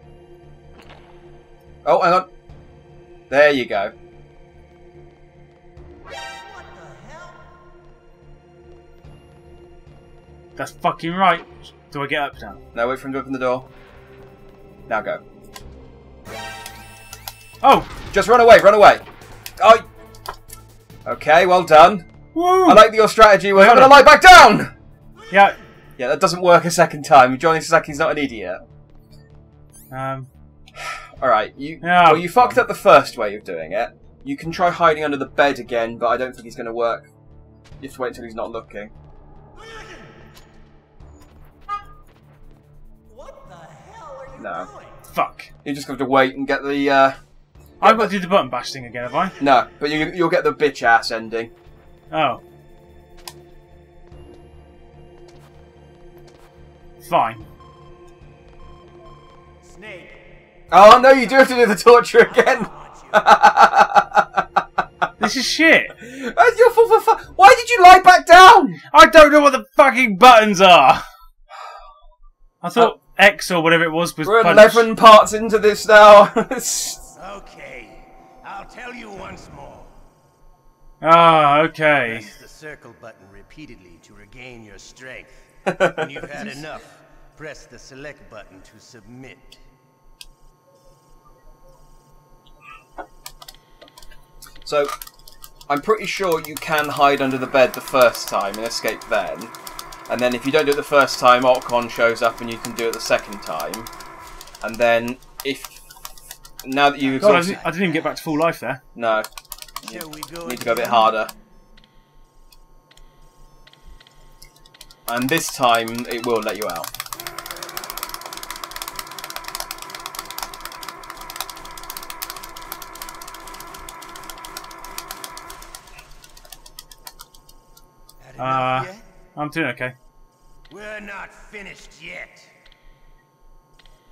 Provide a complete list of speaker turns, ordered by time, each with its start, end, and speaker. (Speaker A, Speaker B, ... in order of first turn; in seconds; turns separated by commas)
Speaker A: 1.8-2.3, Speaker A: 3.3-3.9, Speaker B: 6.5-7.5, Speaker C: 10.6-12.6, Speaker A: 12.7-13.7, Speaker A: 14.9-15.2, Speaker C: 17.6-17.9, Speaker A: 18.1-19.0, Speaker A: 19.6-19.9, Speaker A: 21.1-22.1, Speaker C: 22.3-22.9, Speaker A: 22.6-24.7, Speaker C: 23.5-24.0, Speaker C: 25.3-25.6, Speaker A: 26.0-28.6, Speaker C: 29.9-30.3, Speaker A: 30.8-37.1, Speaker C: 31.8-32.6, Speaker A: 37.8-38.9, Speaker B: 39.6-40.1, Speaker B: 43.1-45.1, Speaker A: 44.4-44.7, Speaker C: 45.1-45.5, Speaker A: 45.6-47.2, Speaker A: 47.8-48.1, Speaker C: 47.8-49.4, Speaker A: 49.4-51.5, Speaker C: 52.1-52.4, Speaker C: 57.0-57.5, Speaker B: 59.6-60.3, Speaker A: 60.7-64.5, Speaker B: 60.9-61.3, Speaker B: 62.3-63.3, Speaker C: 65.2-66.0, Speaker A: 66.0-68.8, Speaker C: 68.9-71.0, Speaker C: 72.6-74.9, Speaker A: 74.2-77.0, Speaker B: 77.2-80.0, Speaker C: 81.0-82.3, Speaker B: 82.0-89.6, Speaker A: 94.7-94.9, Speaker A: 95.7-99.5, Speaker A: 100.1-103.9, Speaker A: 104.6-105.8, Speaker A: 106.6-107.6, Speaker B: 107.0-108.0, Speaker C: 107.2-108.8, Speaker A: 109.0-109.3, Speaker B: 109.8-111.2, Speaker A: 109.8-111.3, Speaker A: 115.1-116.9, Speaker B: 128.2-129.1, Speaker C: 128.4-129.9, Speaker B: 130.7-132.6